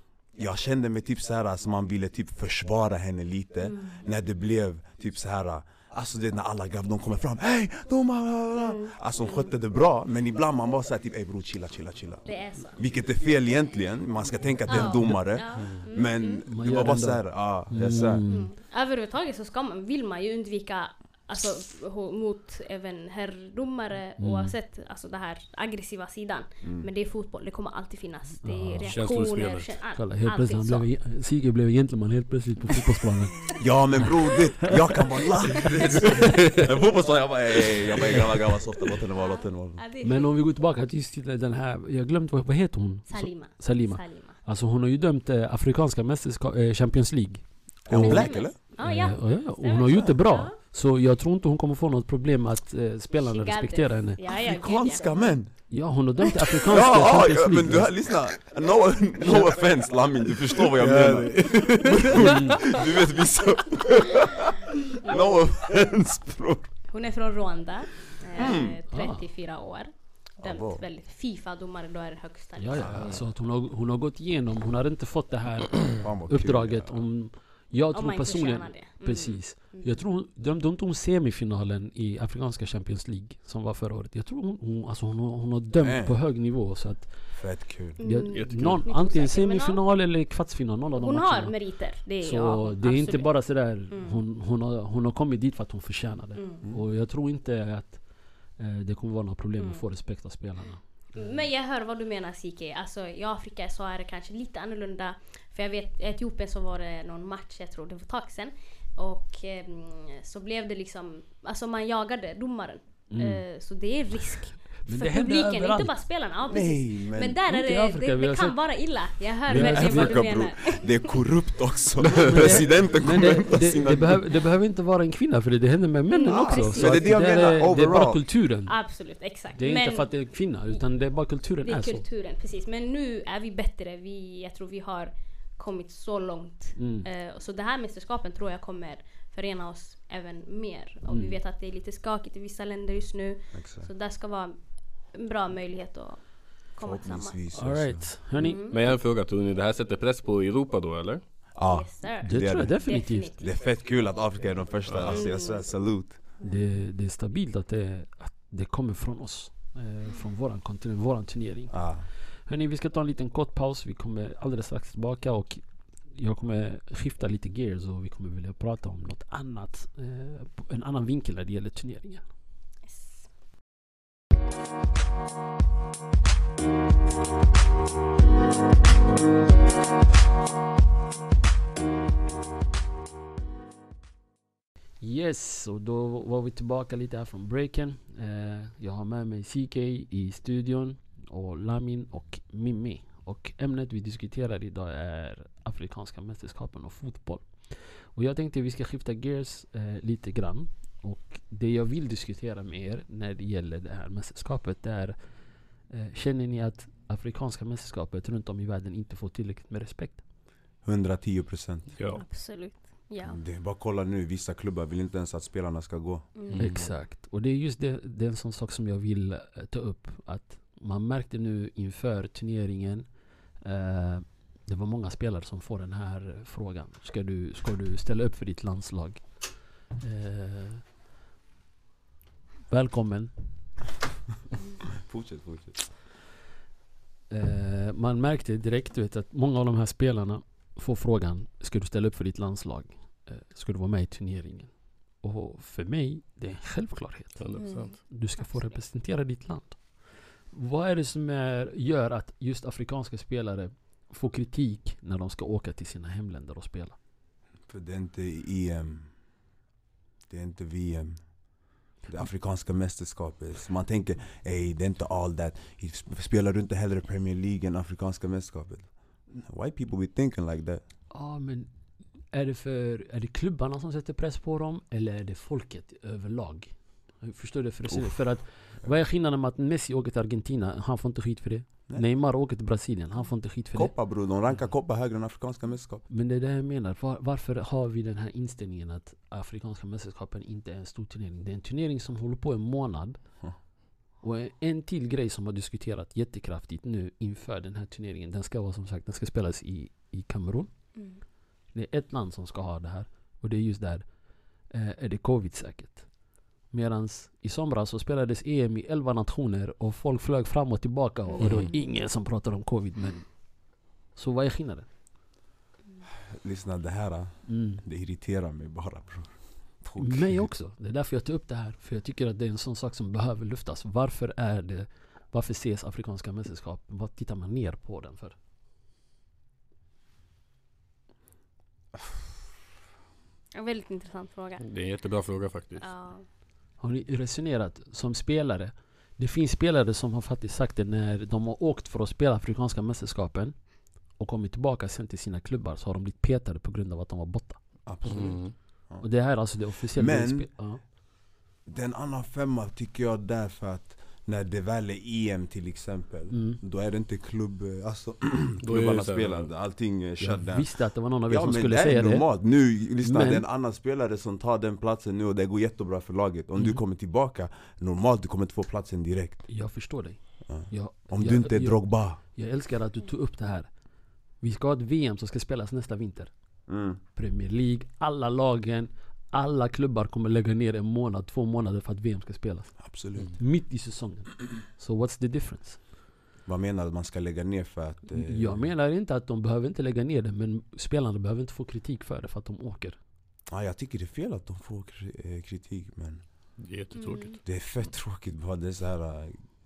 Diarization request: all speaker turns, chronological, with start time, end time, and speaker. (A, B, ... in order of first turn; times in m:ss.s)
0:00.4-0:12.2 A
0:03.6-0:04.0 B
0:08.6-0:08.9 B
0:12.2-0:12.8 B
0:12.8-0:18.2 A
0:14.7-0:16.4 B
0:16.4-0:18.5 C
0:18.3-0:30.9 B
0:24.2-0:24.6 C
0:26.6-0:26.9 A
0:28.4-0:29.0 C
0:28.8-0:29.7 D
0:29.9-0:34.1 C
0:33.6-0:39.8 A
0:34.6-0:34.9 C
0:35.6-0:36.6 C
0:39.2-0:40.4 B
0:40.0-0:54.2 C
0:43.1-0:44.4 B
0:47.9-0:48.5 A
0:47.9-0:50.5 B
0:49.8-0:50.1 A
0:53.1-0:55.1 B
0:54.4-0:55.5 A
0:55.7-0:57.9 C
0:56.6-1:06.7 A
1:00.7-1:02.9 D
1:02.2-1:02.6 C
1:06.9-1:13.1 B
1:08.4-1:08.8 A
1:08.9-1:09.2 C
1:10.4-1:10.8 A
1:12.6-1:27.1 C
1:12.8-1:13.1 A
1:16.0-1:17.0 A
1:17.9-1:20.0 B
1:25.8-1:26.2 A
1:27.3-1:28.0 A
1:28.0-1:29.8 B
1:28.0-1:31.5 C
1:28.3-1:28.8 D
1:30.9-1:33.3 B
1:32.2-1:38.0 C
1:33.9-1:34.2 B
1:36.4-1:36.6 B
1:38.6-1:40.8 C
1:39.6-1:39.8 B
1:41.1-2:01.2 B
1:53.1-1:53.4 C
1:54.9-1:55.9 C
1:56.5-1:57.4 A
1:57.5-1:58.5 C
1:59.5-2:00.2 C
1:59.5-2:04.2 A
2:02.2-2:08.7 C
2:06.1-2:07.2 B
2:06.2-2:08.2 A
2:08.7-2:10.1 B
2:09.6-2:12.0 C
2:11.6-2:24.6 B
2:16.8-2:17.1 C
2:21.1-2:21.3 C
2:23.5-2:23.9 A
2:25.1-2:26.2 B
2:26.7-2:27.4 B
2:26.8-2:28.1 A
2:27.5-2:28.6 C
2:28.4-2:28.8 B
2:28.7-2:31.2 D
2:31.6-2:32.8 A
2:31.6-2:33.5 B
2:32.2-2:33.3 C
2:33.4-2:36.2 A
2:34.9-2:35.2 D
2:35.0-2:35.6 B
2:36.4-2:41.7 C
2:41.7-2:42.0 A
2:42.5-2:52.2 C
2:52.8-2:53.2 B
3:05.0-3:25.1 C
3:25.9-3:30.2 C
3:30.8-3:31.9 A
3:32.0-3:32.2 D
3:32.1-3:33.4 B
3:33.2-3:36.3 A
3:36.4-3:36.7 B
3:36.5-3:36.8 D
3:36.6-3:43.0 C
3:43.6-3:49.2 C
3:50.0-3:50.8 C
3:52.7-3:53.3 C
3:54.8-3:55.8 A
3:57.3-4:04.7 C
4:05.2-4:07.4 C
4:07.4-4:07.9 D
4:07.6-4:08.0 B
4:08.1-4:09.8 C
4:10.5-4:17.0 C
4:17.7-4:19.1 A
4:20.3-4:21.2 A
4:22.1-4:30.8 A
4:31.1-4:31.7 C
4:32.3-4:43.9 C
4:37.9-4:38.2 A
4:43.7-4:46.0 A
4:46.1-4:53.2 C
4:54.2-5:00.7 C
5:01.7-5:04.0 C
5:04.7-5:06.1 C
5:06.7-5:13.2 C
5:11.4-5:11.7 B
5:14.2-5:14.9 C
5:16.2-5:20.4 A
5:17.5-5:17.8 C
5:20.0-5:28.4 C
5:33.5-5:34.6 B
5:34.6-5:35.8 D
5:35.8-5:36.2 B
5:36.8-5:43.5 C
5:44.2-5:47.6 C
5:47.8-5:49.0 A
5:48.1-5:48.5 D
5:49.0-5:50.8 C
5:49.9-5:50.5 A
5:51.6-6:00.7 A
5:56.3-5:56.6 C
5:58.6-5:59.5 D
6:00.2-6:02.2 C
6:01.3-6:09.5 A
6:03.0-6:03.4 C
6:09.5-6:13.7 C
6:10.4-6:12.2 A
6:14.4-6:16.3 C
6:16.7-6:17.0 A
6:17.2-6:25.8 C
6:22.8-6:23.4 A
6:26.4-6:28.6 A
6:28.1-6:33.0 C
6:33.5-6:36.2 A
6:36.6-6:37.4 D
6:37.0-6:37.4 B
6:37.4-6:39.4 A